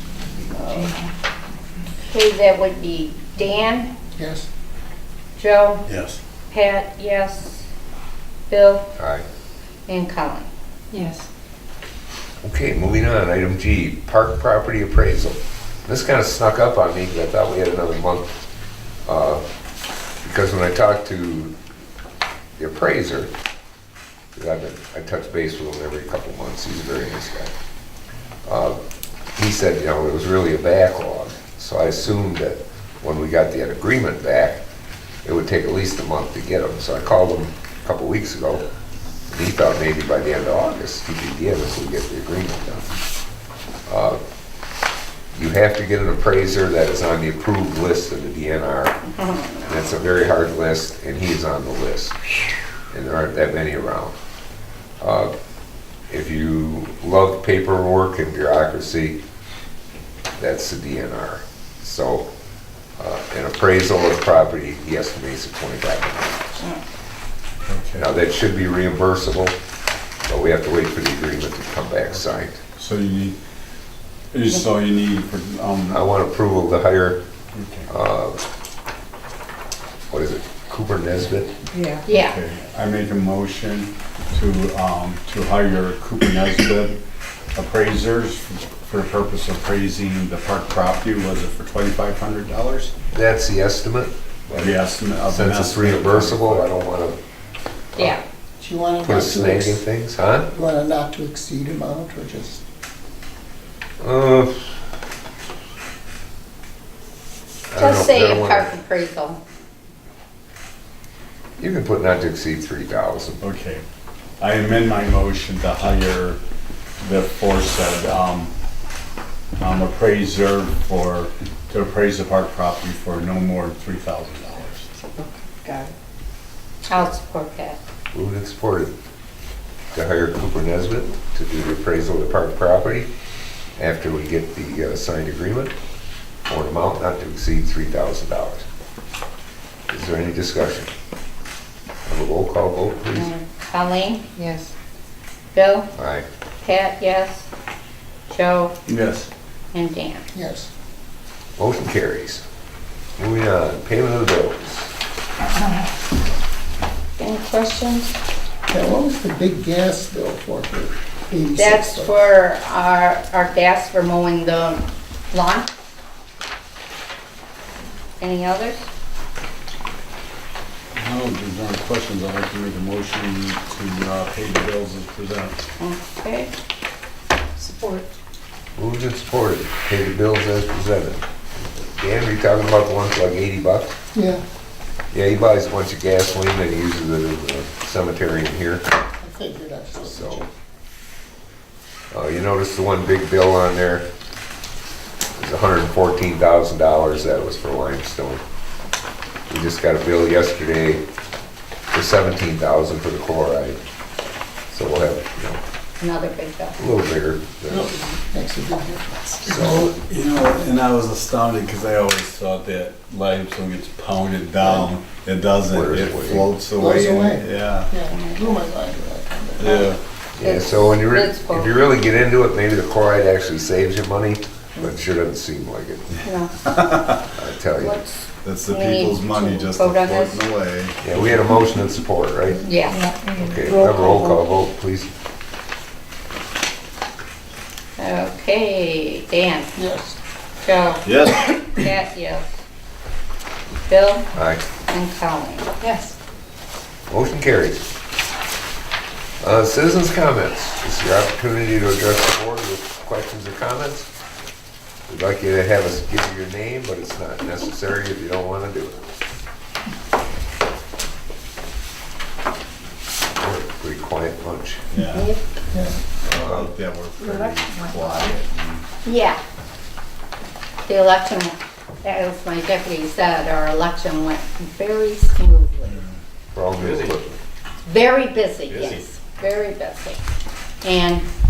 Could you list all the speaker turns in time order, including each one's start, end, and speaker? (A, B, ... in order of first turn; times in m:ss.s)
0:00.5-0:00.9 A
0:00.5-0:01.1 B
0:02.0-0:03.9 A
0:04.2-0:04.5 C
0:05.4-0:05.8 A
0:05.9-0:06.2 D
0:06.5-0:07.7 A
0:08.5-0:08.9 A
0:09.0-0:09.2 E
0:09.9-0:10.5 A
0:10.9-0:11.3 B
0:12.4-0:18.3 E
0:19.0-0:19.4 E
0:20.2-0:21.5 E
0:22.6-0:23.3 E
0:24.3-0:27.5 E
0:28.4-0:28.8 E
0:29.4-0:34.6 E
0:35.2-0:38.6 E
0:39.3-0:43.0 E
0:43.9-0:44.2 E
0:45.3-0:49.0 E
0:49.1-0:49.9 A
0:49.7-0:52.2 E
0:52.9-0:54.1 E
0:55.0-0:55.3 E
0:56.1-0:59.2 E
1:00.4-1:02.2 E
1:03.0-1:06.5 E
1:07.7-1:08.1 D
1:08.0-1:09.6 E
1:10.3-1:12.6 E
1:12.8-1:13.4 D
1:14.3-1:16.1 D
1:15.9-1:17.2 E
1:17.5-1:17.9 D
1:17.9-1:18.4 E
1:20.1-1:21.6 E
1:21.7-1:22.0 B
1:22.1-1:22.4 A
1:22.1-1:27.0 D
1:27.5-1:33.0 D
1:33.1-1:37.2 E
1:34.5-1:36.7 D
1:38.6-1:39.8 C
1:39.0-1:40.5 E
1:40.5-1:42.6 C
1:44.0-1:44.5 E
1:47.7-1:48.7 E
1:47.8-1:49.4 A
1:51.6-1:53.4 E
1:53.4-1:53.8 D
1:54.4-1:56.4 D
1:57.0-1:58.5 D
1:59.6-2:04.9 D
2:05.2-2:05.9 B
2:06.9-2:07.8 A
2:08.1-2:08.9 E
2:09.9-2:13.1 E
2:13.8-2:15.7 E
2:16.5-2:18.6 E
2:19.9-2:20.9 E
2:22.1-2:23.3 E
2:23.1-2:24.2 A
2:24.4-2:24.7 B
2:25.5-2:25.9 A
2:26.0-2:26.2 E
2:26.6-2:27.5 A
2:28.3-2:28.7 A
2:28.9-2:29.3 D
2:29.7-2:30.3 A
2:30.3-2:30.7 C
2:31.6-2:32.4 E
2:33.2-2:34.9 E
2:37.2-2:38.1 A
2:38.7-2:42.2 C
2:41.6-2:45.7 A
2:48.2-2:48.9 A
2:50.9-2:55.6 D
2:55.8-2:56.5 A
2:57.6-2:58.1 B
2:58.8-3:03.9 E
3:04.1-3:04.4 C
3:05.1-3:08.8 E
3:09.2-3:10.5 C
3:10.0-3:10.5 E
3:12.1-3:14.0 E
3:15.4-3:18.4 E
3:19.5-3:21.0 E
3:21.9-3:23.8 E
3:24.7-3:25.6 E
3:26.0-3:26.8 A
3:26.8-3:27.9 E
3:27.7-3:29.9 C
3:29.5-3:37.9 D
3:34.6-3:34.9 C
3:35.7-3:36.5 E
3:36.8-3:40.0 C
3:38.1-3:38.6 A
3:39.6-3:40.0 D
3:40.4-3:46.2 E
3:40.4-3:41.8 A
3:46.2-3:46.6 A
3:46.6-3:47.3 D
3:47.3-3:48.0 E
3:47.8-3:50.4 A
3:48.4-3:51.6 D
3:51.0-3:52.7 E
3:52.6-3:53.1 A
3:52.7-3:54.4 B
3:53.4-3:55.1 E
3:58.0-3:59.7 A
3:59.8-4:00.2 C
4:00.6-4:01.1 A
4:01.0-4:01.9 D
4:01.8-4:02.5 A
4:03.8-4:04.2 A
4:04.4-4:04.6 E
4:04.9-4:05.7 A
4:05.8-4:06.1 B
4:07.1-4:07.8 E
4:09.4-4:14.1 E
4:15.1-4:19.2 E
4:23.4-4:24.8 E
4:24.9-4:25.3 D
4:25.7-4:26.0 C
4:26.2-4:26.7 E
4:26.3-4:28.8 D
4:27.2-4:28.4 B
4:29.0-4:29.4 A
4:30.9-4:36.0 A
4:36.5-4:37.4 E
4:36.8-4:37.1 D
4:37.8-4:40.2 A
4:38.7-4:39.0 D
4:40.8-4:41.2 A